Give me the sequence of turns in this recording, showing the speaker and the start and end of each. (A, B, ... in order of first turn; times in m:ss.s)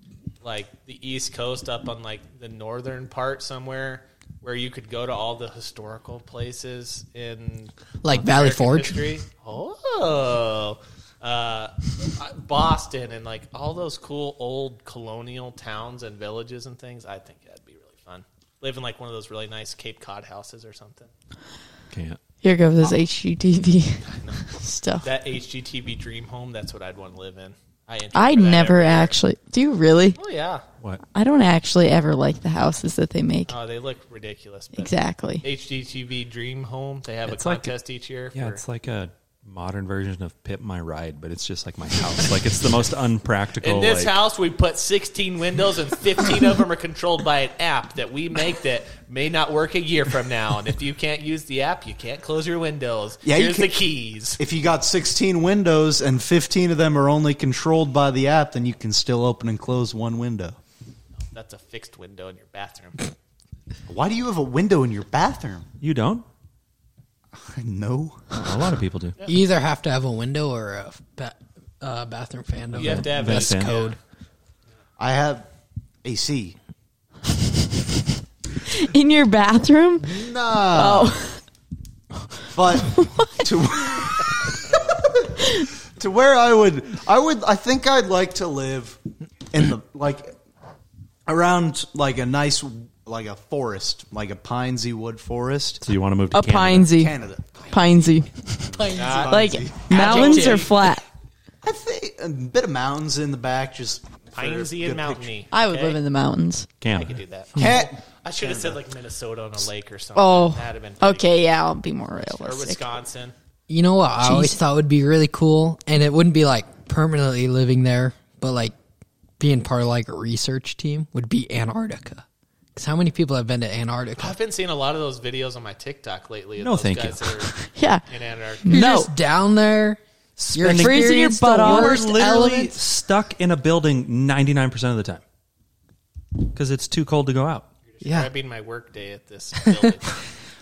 0:00.4-0:21.1 A
0:08.0-0:09.0 B
0:21.9-0:22.2 C
0:22.4-0:25.1 D
0:24.1-0:24.4 A
0:25.0-0:29.2 A
0:28.1-0:30.2 D
0:30.2-0:30.6 A
0:31.1-0:33.6 D
0:33.5-0:38.6 A
0:34.8-0:35.4 D
0:37.2-0:37.7 C
0:38.3-0:44.2 C
0:43.6-0:54.4 A
0:53.2-0:53.8 E
0:54.4-1:00.6 E
1:01.3-1:03.1 A
1:03.9-1:05.7 E
1:05.8-1:06.2 C
1:07.3-1:08.2 E
1:08.3-1:09.2 C
1:09.2-1:14.0 B
1:12.7-1:14.0 A
1:12.7-1:13.9 C
1:15.0-1:15.4 E
1:16.0-1:16.6 E
1:18.7-1:21.4 D
1:20.0-1:21.2 E
1:22.5-1:29.0 E
1:23.0-1:23.4 D
1:29.5-1:30.3 E
1:31.3-1:35.8 E
1:35.8-1:36.9 C
1:36.3-1:37.1 D
1:36.9-1:38.1 E
1:37.7-1:41.0 D
1:38.6-1:40.2 E
1:38.7-1:39.3 B
1:38.9-1:40.9 A
1:39.9-1:40.7 B
1:41.6-1:45.3 E
1:44.3-1:46.0 A
1:45.5-1:46.7 D
1:46.8-1:47.2 C
1:46.9-1:51.3 A
1:47.6-1:48.7 E
1:50.2-1:52.8 D
1:52.3-1:53.3 A
1:53.7-1:58.7 B
1:54.2-1:54.6 D
1:59.4-2:04.4 B
2:04.2-2:08.7 A
2:06.6-2:07.5 C
2:07.7-2:08.0 D
2:08.6-2:09.1 D
2:08.7-2:12.8 B
2:10.6-2:15.2 C
2:10.6-2:12.1 D
2:16.5-2:17.7 C
2:17.9-2:20.2 A
2:18.0-2:18.3 B